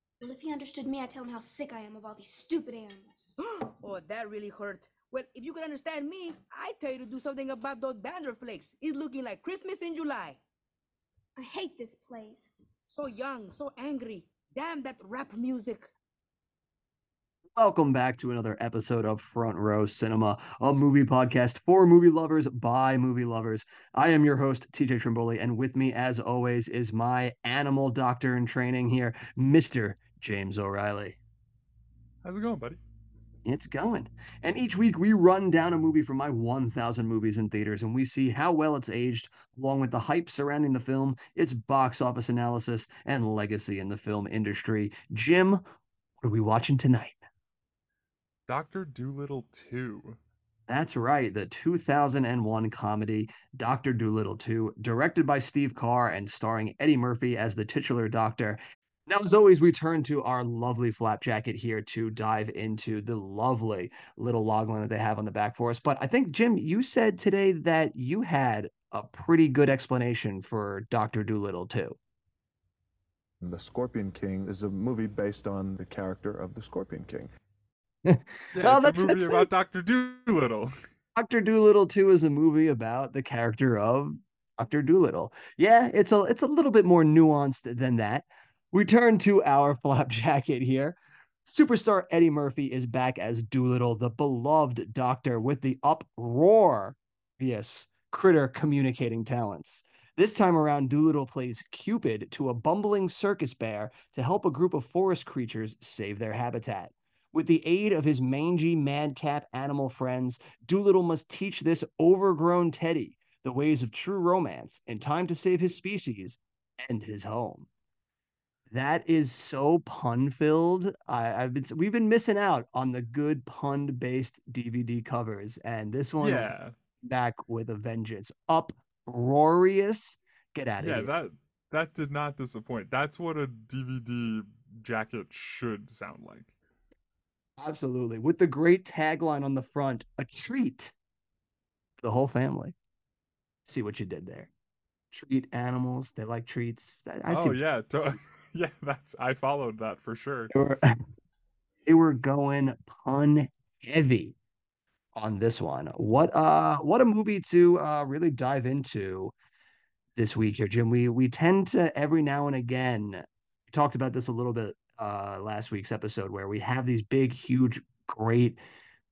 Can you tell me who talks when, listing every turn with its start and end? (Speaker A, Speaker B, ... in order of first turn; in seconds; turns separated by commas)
Speaker A: 0.2-3.3, Speaker B: 3.5-10.4, Speaker A: 11.3-12.5, Speaker B: 12.9-15.9, Speaker C: 17.6-31.2, Speaker D: 32.2-32.8, Speaker C: 33.5-45.6, Speaker C: 46.2-47.2, Speaker D: 48.5-50.2, Speaker C: 50.7-72.0, Speaker E: 73.4-77.3, Speaker C: 78.0-79.5, Speaker D: 78.5-80.7, Speaker C: 81.2-117.7, Speaker C: 118.7-131.1, Speaker D: 126.2-126.7, Speaker D: 130.8-136.5, Speaker C: 137.6-140.9, Speaker C: 142.0-142.7, Speaker C: 143.6-144.5, Speaker C: 145.1-147.6, Speaker D: 147.3-150.5, Speaker C: 150.5-150.8, Speaker C: 151.8-154.3, Speaker C: 155.2-159.3, Speaker C: 160.2-168.6